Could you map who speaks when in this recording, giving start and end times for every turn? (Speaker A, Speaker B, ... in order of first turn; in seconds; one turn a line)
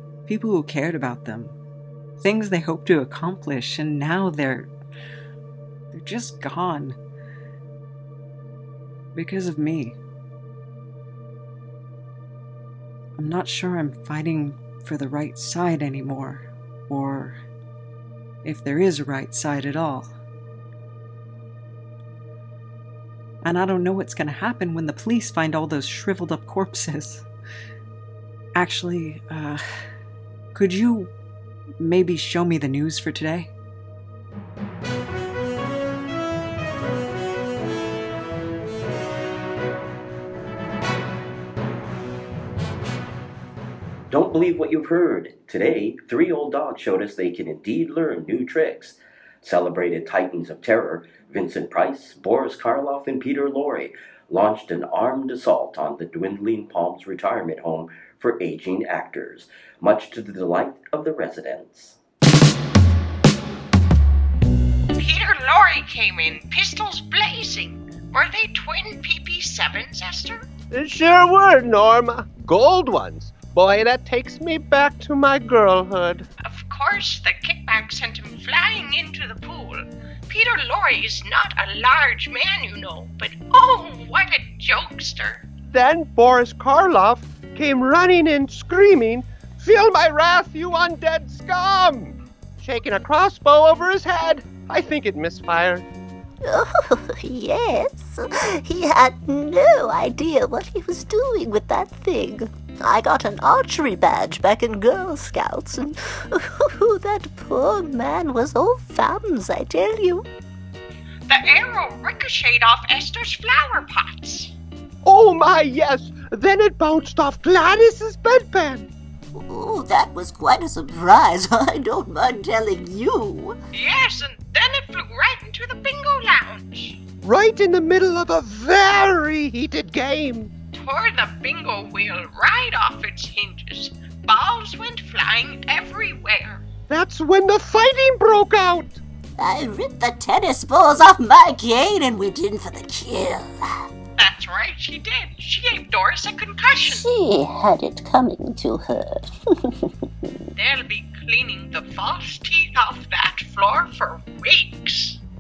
Speaker A: 0.3-1.6
Speaker A: 2.2-4.7
Speaker A: 5.9-7.0
Speaker A: 9.2-10.0
Speaker A: 13.2-17.4
Speaker A: 18.4-20.1
Speaker A: 23.4-27.3
Speaker A: 28.6-29.6
Speaker A: 30.6-31.1
Speaker A: 31.8-33.5
Speaker B: 44.1-62.0
Speaker C: 65.0-70.5
Speaker D: 70.7-76.3
Speaker C: 76.4-85.5
Speaker D: 85.7-95.9
Speaker E: 96.5-110.2
Speaker C: 111.3-114.5
Speaker D: 115.0-118.9
Speaker E: 119.3-123.6
Speaker C: 123.7-127.0
Speaker D: 127.2-130.5
Speaker C: 130.7-136.6
Speaker D: 136.9-139.0
Speaker E: 139.4-143.6
Speaker C: 144.2-147.0
Speaker E: 146.8-149.7
Speaker C: 150.6-155.2